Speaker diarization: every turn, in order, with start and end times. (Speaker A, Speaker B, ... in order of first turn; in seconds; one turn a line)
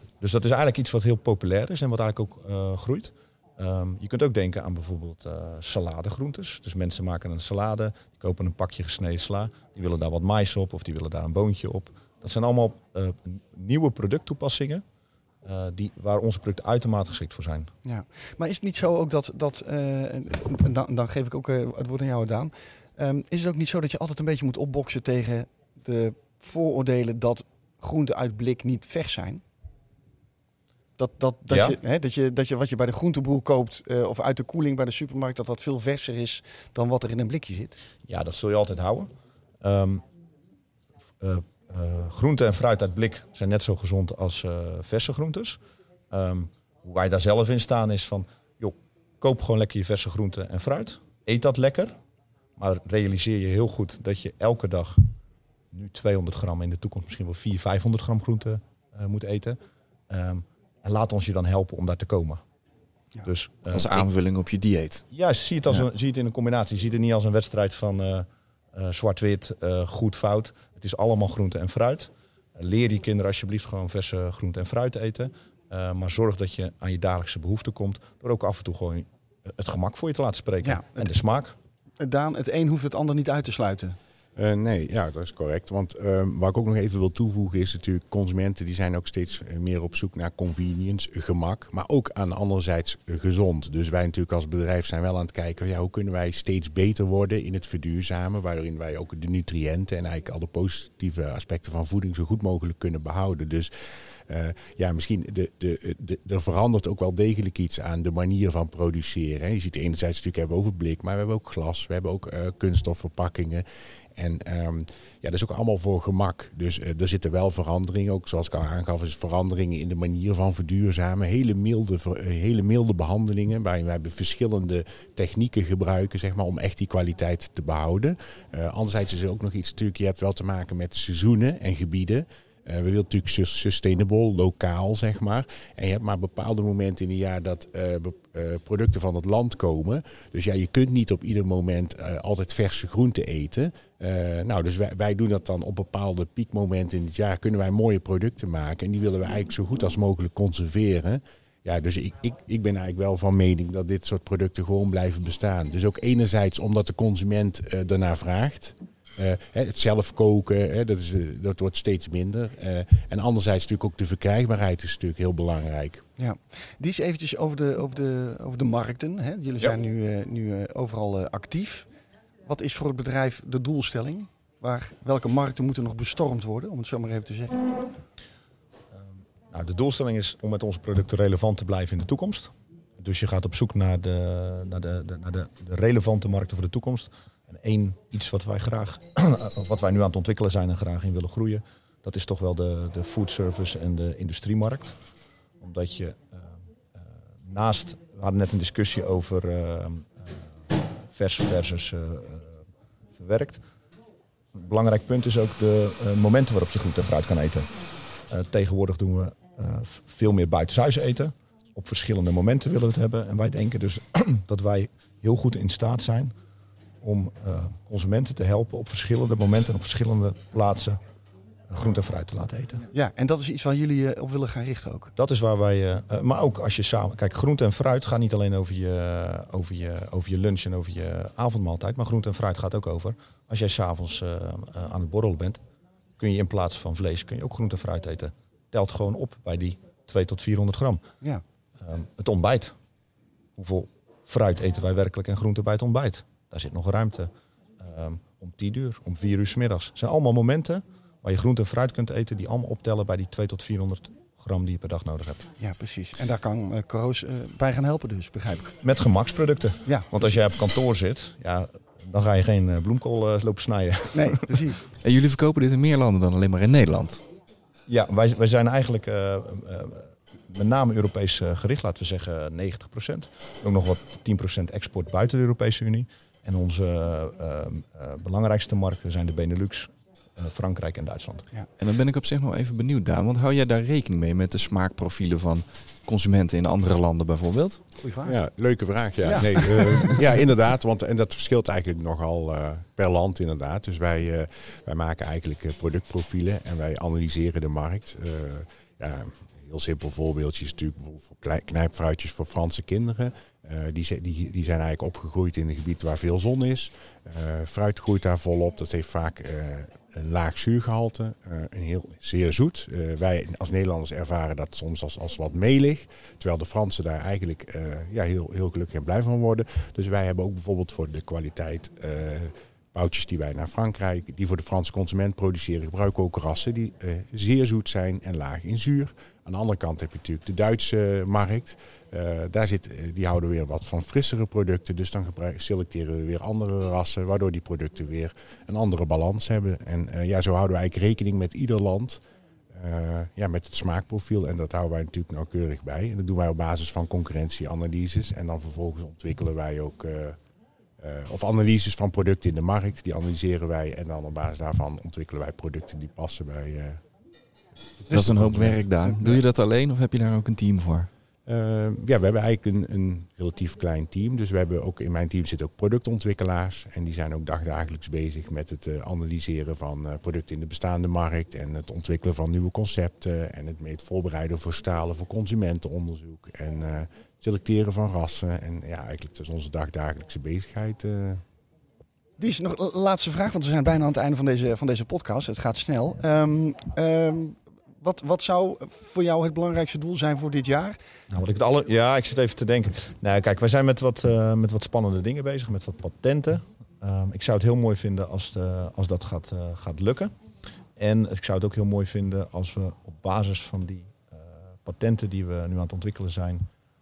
Speaker A: 0.2-14.8
Speaker A: 15.4-17.7
Speaker B: 17.8-29.4
Speaker B: 31.0-37.7
Speaker A: 31.5-31.8
Speaker A: 38.0-39.1
Speaker A: 39.6-40.0
Speaker A: 41.2-45.6
Speaker A: 46.1-52.0
Speaker A: 52.6-55.1
Speaker A: 55.7-59.6
Speaker A: 60.1-62.4
Speaker A: 63.2-64.1
Speaker C: 63.7-65.0
Speaker A: 65.1-81.5
Speaker B: 80.6-81.1
Speaker B: 82.0-84.0
Speaker D: 84.3-113.6
Speaker D: 114.2-166.0
Speaker B: 166.2-171.9
Speaker B: 172.4-177.7
Speaker A: 178.9-195.0
Speaker A: 195.6-202.6
Speaker A: 203.1-203.6
Speaker A: 204.5-207.7
Speaker A: 208.3-216.3
Speaker A: 217.0-221.0
Speaker A: 221.7-222.8
Speaker B: 222.9-225.1
Speaker A: 225.2-235.6
Speaker A: 236.2-241.0
Speaker A: 241.8-242.8
Speaker A: 243.6-255.5
Speaker B: 255.6-258.8
Speaker A: 258.8-264.7
Speaker B: 259.9-260.2
Speaker B: 264.1-264.8
Speaker C: 264.9-267.2
Speaker A: 267.9-281.5
Speaker C: 281.8-287.8
Speaker B: 288.0-288.4
Speaker D: 288.2-342.2
Speaker B: 289.2-290.2
Speaker D: 342.7-350.4
Speaker D: 351.0-357.0
Speaker D: 358.0-359.4
Speaker C: 358.1-361.1
Speaker D: 361.5-381.4
Speaker B: 382.4-391.0
Speaker A: 391.3-400.3
Speaker A: 400.9-406.6